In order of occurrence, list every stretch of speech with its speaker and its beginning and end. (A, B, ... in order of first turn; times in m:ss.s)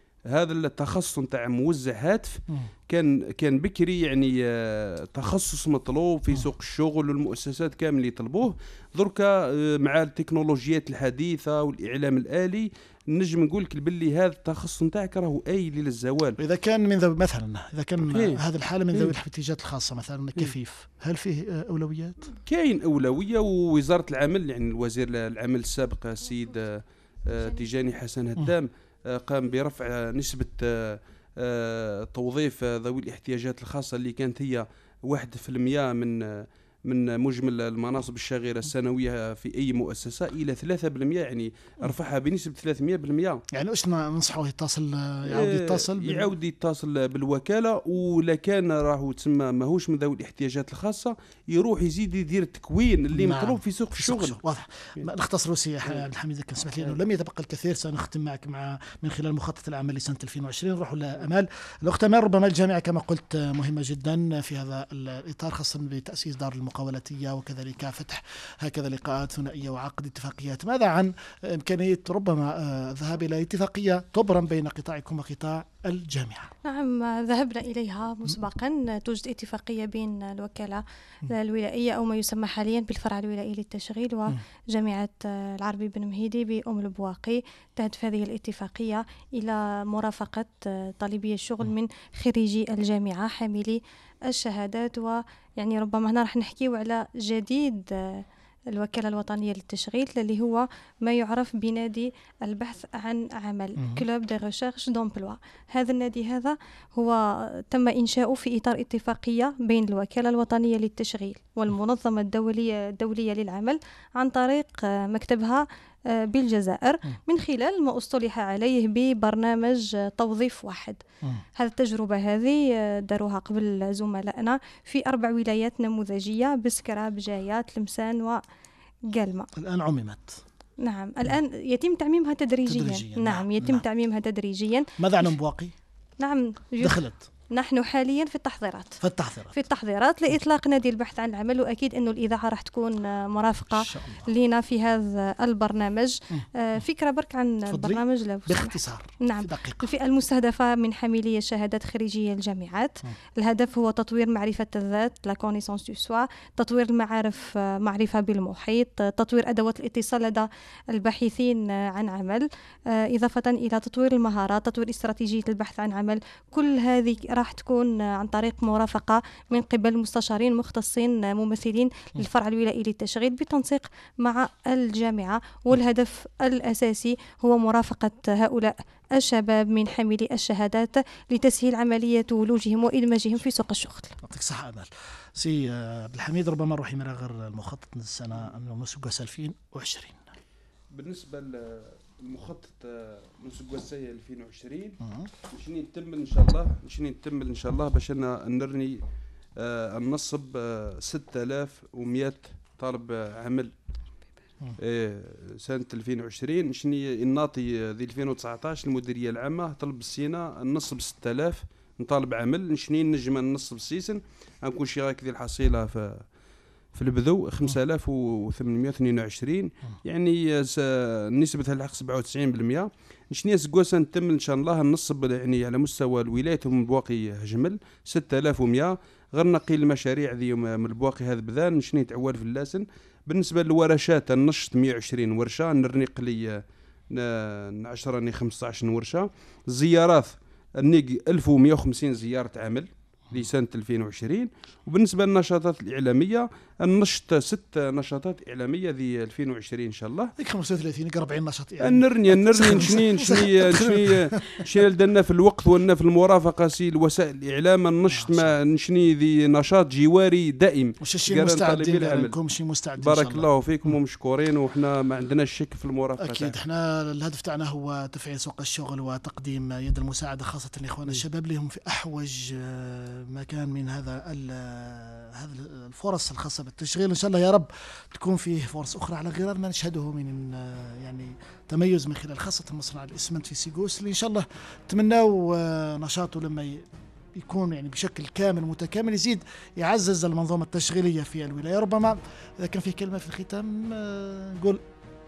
0:00.3-0:16.4 A
0:16.4-0:22.3 B
0:18.1-0:19.1 A
0:22.4-0:43.4 A
0:43.5-0:46.3 B
0:45.3-0:54.4 A
0:53.1-1:16.5 B
1:16.6-2:01.0 C
1:43.8-1:44.0 B
2:01.6-2:08.4 C
2:09.1-2:09.5 C
2:09.5-2:10.4 B
2:10.8-2:14.9 C
2:12.7-2:13.8 B
2:15.0-2:15.7 B
2:16.2-2:19.0 C
2:16.8-2:17.3 B
2:19.0-2:19.6 B
2:19.5-3:04.2 C
2:23.7-2:24.3 B
2:27.7-2:29.8 B
3:04.2-3:10.2 B
3:10.9-3:15.0 A
3:15.0-3:15.3 B
3:15.5-3:19.0 A
3:19.6-3:23.7 A
3:24.8-3:36.2 A
3:36.9-4:10.3 A
4:10.4-4:14.7 B
4:11.8-4:22.4 A
4:18.1-4:18.5 B
4:21.0-4:23.5 B
4:23.0-4:26.6 A
4:26.2-4:54.8 B